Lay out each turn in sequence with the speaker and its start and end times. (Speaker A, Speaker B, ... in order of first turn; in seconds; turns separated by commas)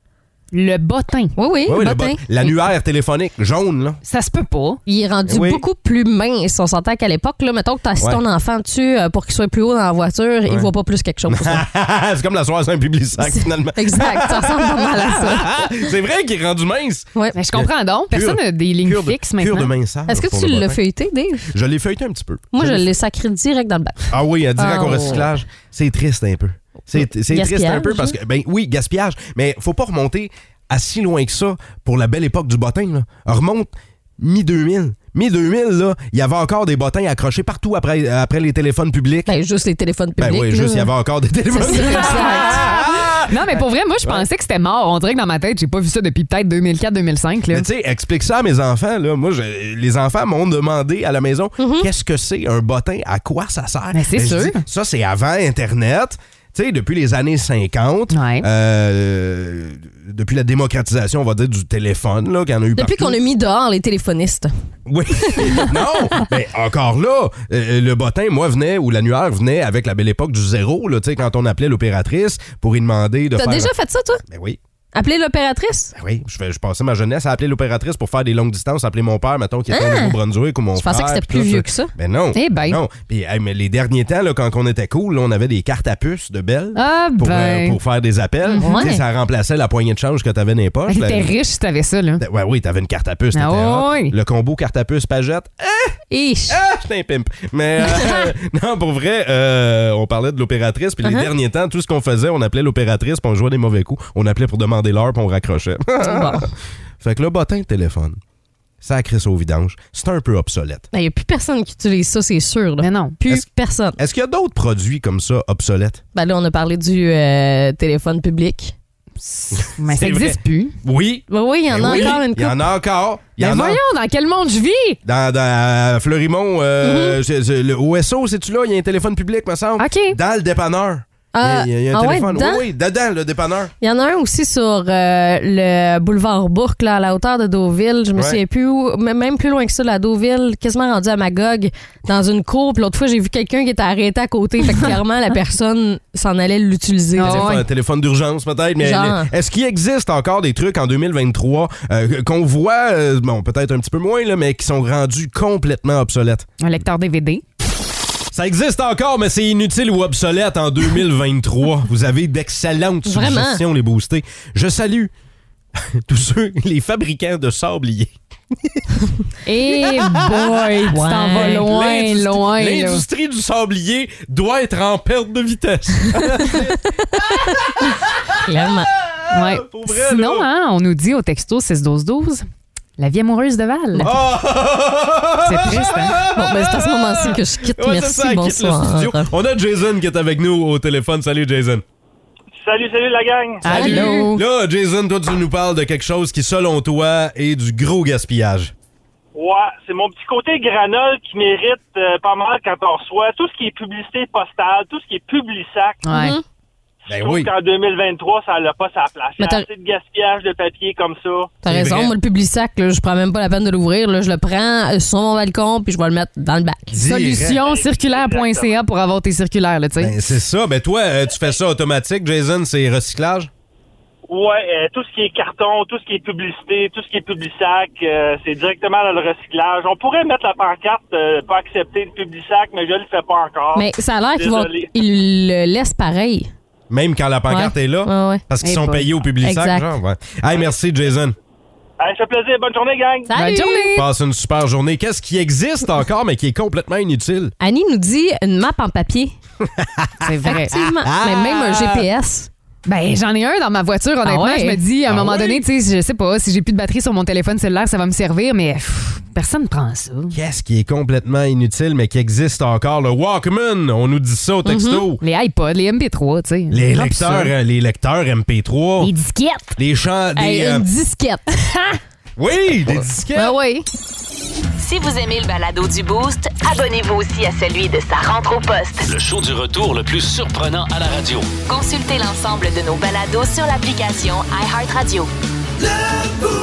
Speaker A: 0.5-1.4, Speaker B: 1.4-2.2, Speaker C: 1.7-4.0, Speaker A: 4.0-4.8, Speaker B: 4.9-11.6, Speaker C: 5.3-5.6, Speaker C: 11.3-20.8, Speaker B: 13.2-15.9, Speaker A: 17.4-19.7, Speaker B: 20.1-21.5, Speaker C: 21.5-22.9, Speaker B: 22.5-25.3, Speaker C: 24.1-39.3, Speaker B: 27.0-28.2, Speaker B: 39.3-40.9, Speaker C: 40.2-44.3, Speaker B: 41.5-43.0, Speaker A: 41.7-42.6, Speaker A: 43.3-47.7, Speaker C: 47.5-63.2, Speaker B: 51.6-51.9, Speaker A: 53.9-54.6, Speaker A: 58.1-58.5, Speaker B: 62.8-64.5, Speaker C: 64.9-73.7, Speaker B: 65.2-66.2, Speaker B: 73.3-74.2, Speaker C: 74.3-74.6, Speaker B: 74.9-75.9, Speaker C: 76.0-91.3, Speaker B: 79.7-80.2, Speaker B: 80.8-81.9, Speaker A: 82.3-82.8, Speaker A: 86.8-87.8, Speaker A: 88.5-88.9, Speaker B: 88.6-89.0, Speaker A: 90.9-92.2, Speaker C: 92.2-96.0, Speaker A: 93.3-94.1, Speaker B: 96.1-96.6, Speaker C: 96.5-108.2, Speaker B: 97.8-98.3, Speaker B: 101.0-101.3, Speaker B: 106.0-106.5, Speaker C: 108.8-110.9, Speaker B: 110.9-114.0, Speaker A: 112.8-113.2, Speaker C: 114.0-116.0, Speaker B: 116.1-118.8, Speaker A: 119.2-120.8, Speaker C: 119.6-123.8, Speaker B: 121.3-122.7, Speaker A: 121.9-122.2, Speaker A: 123.4-125.0, Speaker C: 125.0-133.7, Speaker B: 126.8-127.2, Speaker A: 129.8-130.2, Speaker B: 131.3-132.7, Speaker B: 133.8-147.6, Speaker A: 144.7-144.9, Speaker A: 147.2-147.6, Speaker C: 147.2-156.5, Speaker B: 148.8-149.3, Speaker A: 156.6-157.4, Speaker C: 158.3-165.1, Speaker B: 163.1-163.6, Speaker C: 166.1-168.1, Speaker A: 169.4-173.1, Speaker C: 169.9-170.3, Speaker B: 170.9-171.7, Speaker C: 171.4-180.5, Speaker B: 176.5-178.9, Speaker A: 179.3-182.5, Speaker A: 183.0-184.1, Speaker C: 184.0-191.8, Speaker A: 185.4-186.2, Speaker B: 186.3-189.3, Speaker D: 192.6-193.9, Speaker A: 193.6-194.4, Speaker B: 193.7-194.4, Speaker C: 193.7-198.7, Speaker D: 199.3-206.0, Speaker A: 206.0-206.4, Speaker B: 206.1-206.4, Speaker D: 207.1-211.5, Speaker C: 207.1-207.5, Speaker B: 209.4-209.7, Speaker B: 211.6-217.2, Speaker C: 211.7-212.1, Speaker C: 216.9-217.6, Speaker A: 217.0-220.2, Speaker D: 217.5-218.8, Speaker C: 220.0-223.5, Speaker D: 224.3-234.9, Speaker B: 233.8-236.5, Speaker C: 236.9-241.3, Speaker B: 237.5-238.4, Speaker A: 238.6-239.1, Speaker B: 239.4-239.9, Speaker D: 242.0-243.3, Speaker B: 243.3-244.1, Speaker A: 243.3-244.0, Speaker C: 243.9-247.5, Speaker B: 247.6-249.4, Speaker C: 249.8-252.0, Speaker A: 250.2-250.8, Speaker B: 250.5-252.5, Speaker A: 252.9-260.4, Speaker B: 254.2-254.8, Speaker C: 255.1-255.6, Speaker C: 260.3-265.2, Speaker B: 264.6-265.1, Speaker A: 265.2-267.5, Speaker C: 266.7-269.1, Speaker A: 269.0-269.8, Speaker C: 269.8-270.9, Speaker B: 270.4-272.0, Speaker C: 272.4-273.6, Speaker B: 272.9-273.9, Speaker E: 274.8-279.1, Speaker F: 279.0-281.5, Speaker E: 281.7-285.3